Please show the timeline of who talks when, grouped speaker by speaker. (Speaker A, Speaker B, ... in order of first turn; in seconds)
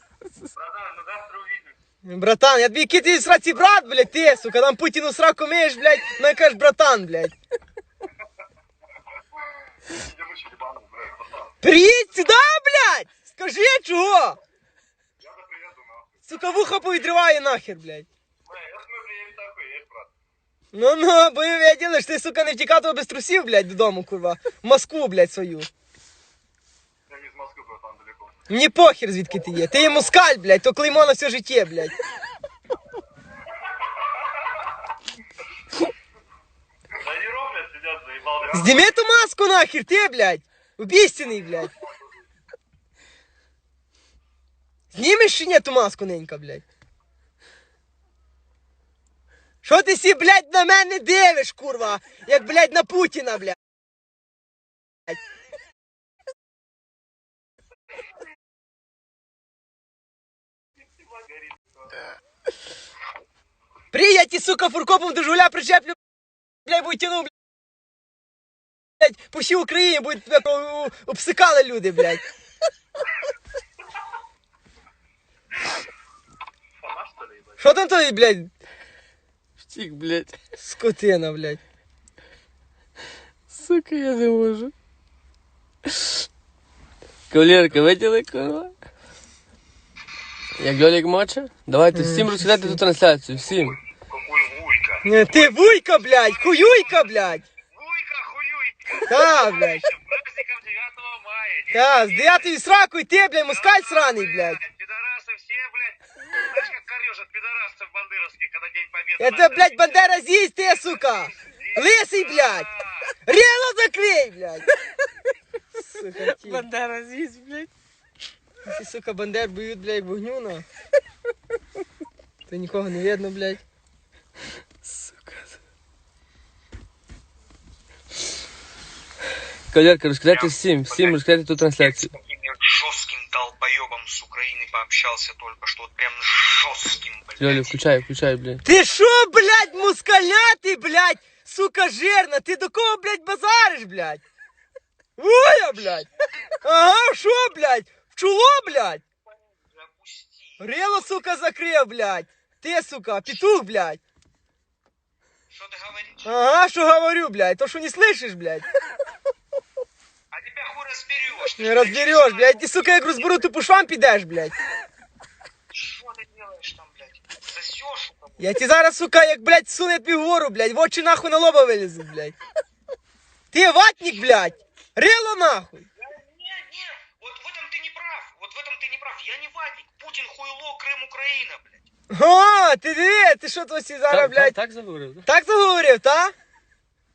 Speaker A: 0.6-1.6, 10.0-11.5, 15.2-16.1, 18.5-20.1, 27.1-28.3, 37.0-38.8, 76.8-77.5
Speaker B: 2.0-7.3, 11.6-14.4, 16.3-18.1, 20.7-25.7, 28.5-31.9, 38.5-41.7, 44.9-46.6, 49.6-53.5, 63.9-66.0, 66.7-67.3, 69.0-72.2, 77.6-78.5, 80.6-81.6, 91.9-92.8, 95.0-97.4, 99.1-99.8, 101.7-104.6, 109.2-112.7, 113.3-114.7, 115.8-116.7, 118.6-120.6, 122.5-123.6, 138.6-144.2, 145.2-146.1, 146.6-149.0, 150.6-154.0, 156.2-158.7, 161.6-164.5, 168.4-172.3, 173.5-175.8, 182.1-184.6, 185.2-186.3
Speaker C: 79.7-80.3, 83.5-84.7, 87.3-88.7, 90.6-93.8, 116.2-117.7, 124.8-125.5, 129.7-132.1, 137.4-138.6, 184.1-185.2
Speaker D: 94.1-97.1, 97.7-102.5, 103.4-110.0, 110.8-113.1, 130.3-131.2, 131.8-137.8, 149.2-151.2, 155.5-156.3, 160.3-163.5, 165.7-168.5, 174.0-174.6, 176.0-181.9